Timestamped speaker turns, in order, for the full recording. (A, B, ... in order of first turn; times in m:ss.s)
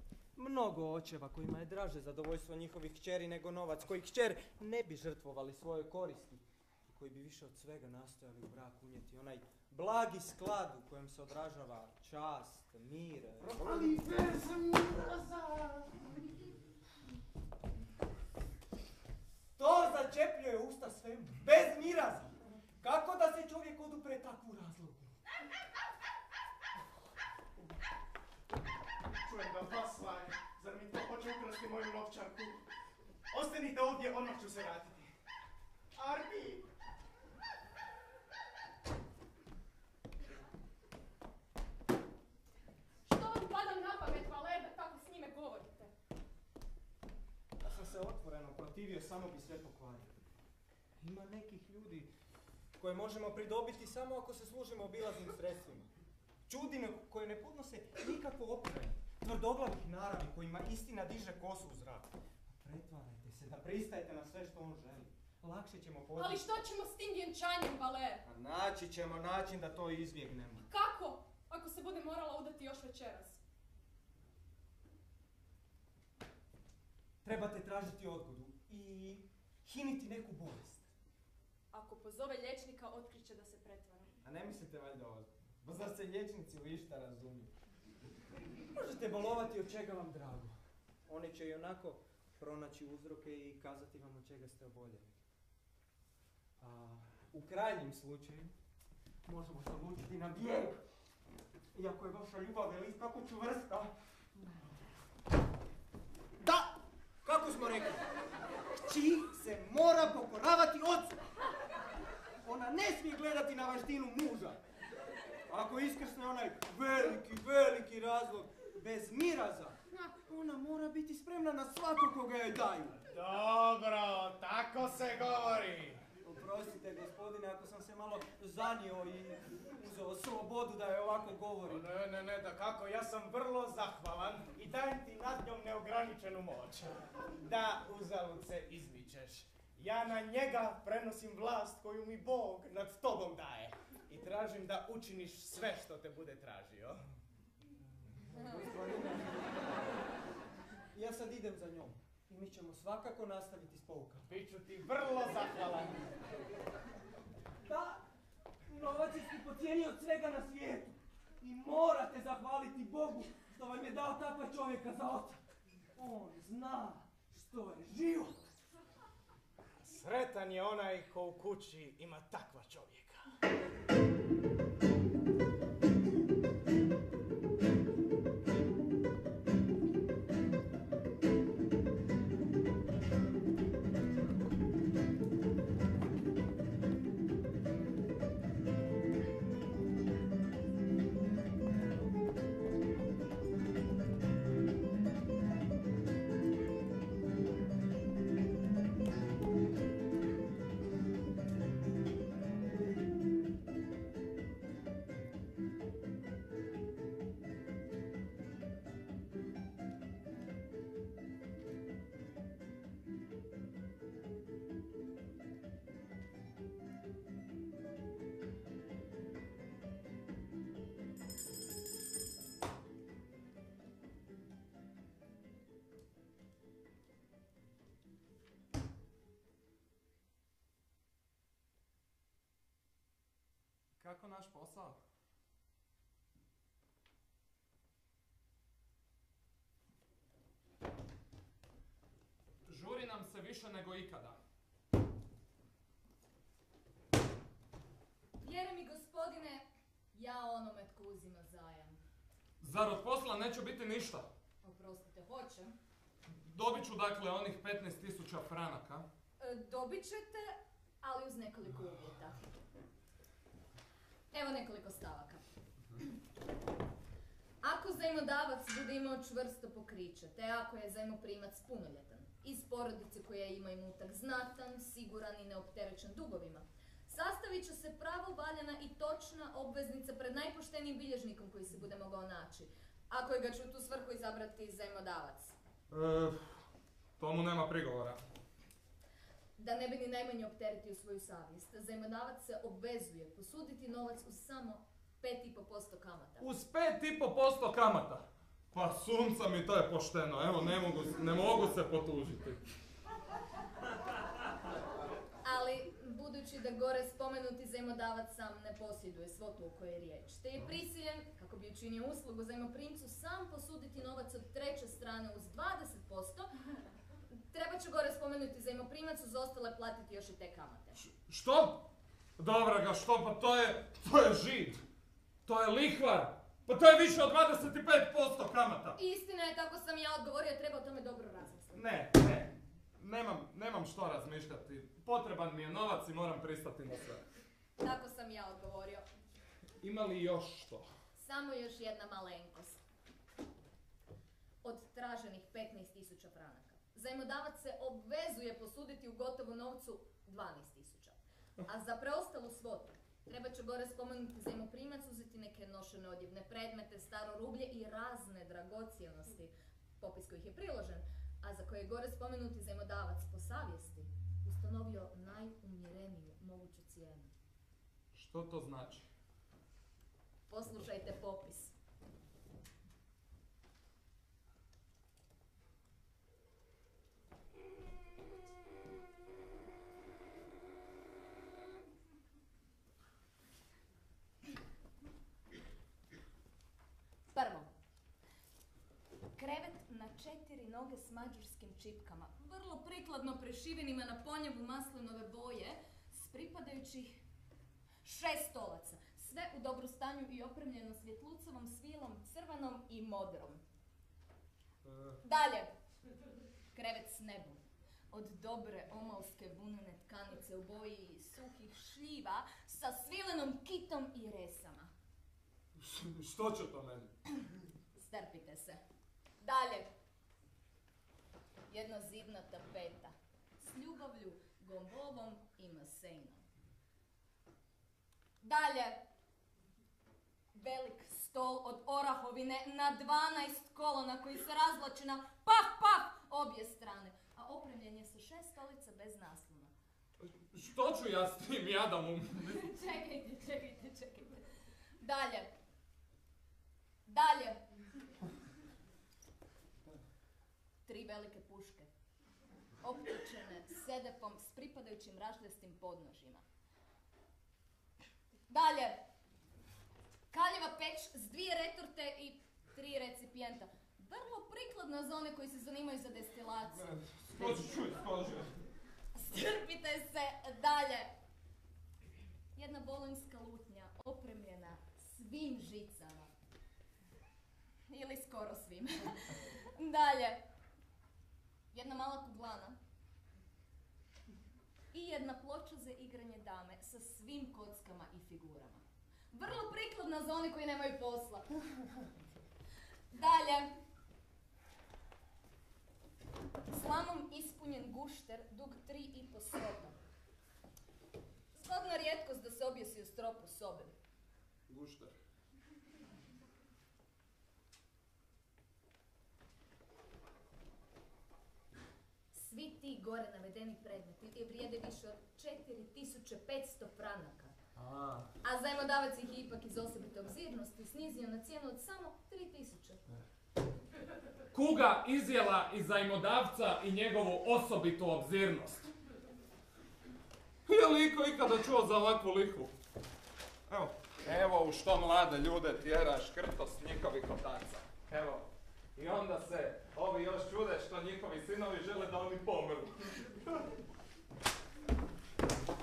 0:00.4-0:14.0 A
0:13.4-0:16.1 B
0:19.6-0:25.1 A
0:29.2-0:32.6 B
0:33.3-0:35.1 B
0:35.9-0:36.7 B
0:43.0-0:45.9 C
0:47.6-0:50.1 A
0:51.0-0:52.1 A
0:52.8-0:55.9 A
0:56.5-1:02.1 A
1:02.6-1:06.4 A
1:06.2-1:08.2 C
1:08.2-1:10.7 A
1:10.7-1:13.4 C
1:17.2-1:20.9 A
1:21.7-1:24.1 C
1:24.2-1:27.5 A
1:28.7-1:30.6 A
1:31.1-1:35.1 A
1:36.6-1:38.5 A
1:39.2-1:40.8 A
1:41.7-1:44.5 A
1:46.4-1:46.7 A
1:47.2-1:48.0 A
1:48.8-1:51.2 A
1:52.4-1:54.6 A
1:55.5-2:03.0 A
2:03.1-2:06.0 B
2:06.2-2:11.9 A
2:11.7-2:27.0 B
2:28.3-2:29.5 A
2:30.9-2:34.3 A
2:34.3-2:36.0 B
2:37.6-2:38.0 A
2:38.7-2:45.4 A
2:45.9-2:48.4 A
2:49.8-2:53.3 B
3:54.0-3:55.0 D
4:02.6-4:04.4 D
4:08.4-4:12.0 E
4:12.6-4:14.3 D
4:14.6-4:15.7 E
4:16.4-4:19.1 D
4:19.4-4:22.4 E
4:24.3-4:25.4 E
4:27.6-4:45.6 E
4:45.9-4:46.6 D
4:47.2-4:48.2 D
4:49.6-4:56.5 E
4:56.4-5:02.6 D
5:05.4-5:16.5 E
5:17.5-5:21.0 E
5:21.0-5:21.8 D
5:22.4-5:24.8 D
5:25.4-5:29.0 D
5:29.0-5:31.8 E
5:31.7-5:37.2 D
5:37.8-5:39.0 E
5:39.8-5:40.9 D
5:41.2-5:42.8 E
5:44.6-6:07.3 E
6:08.1-6:09.1 D
6:10.5-6:11.7 E
6:27.3-6:27.7 E
6:29.4-6:37.2 E
6:38.0-6:43.6 E
6:45.2-6:45.7 E
6:46.7-6:47.6 E
6:48.1-6:54.9 E
6:55.8-6:57.1 D
6:58.0-6:58.8 E
6:59.4-6:59.9 E
7:01.7-7:06.4 E
7:08.4-7:09.0 E
7:10.5-7:19.7 E
7:20.2-7:22.6 D
7:22.5-7:24.4 E
7:25.0-7:25.5 E
7:27.0-7:27.6 E
7:30.9-7:31.9 E
7:32.8-7:36.4 E
7:38.5-7:39.0 E
7:40.3-7:46.9 E
7:47.1-7:48.5 D
7:49.1-7:51.1 E
7:52.5-7:56.3 E
7:57.9-7:59.1 E
7:59.8-8:00.4 E
8:01.7-8:02.8 E
8:04.9-8:11.5 E
8:13.1-8:13.7 E
8:16.7-8:20.0 E
8:21.5-8:23.9 E
8:24.7-8:25.1 D
8:32.3-8:37.5 E
8:37.8-8:38.3 D
8:38.4-8:43.0 E
8:44.5-8:48.8 D
8:50.6-8:52.7 D
8:53.7-8:58.4 D
8:59.0-9:03.6 D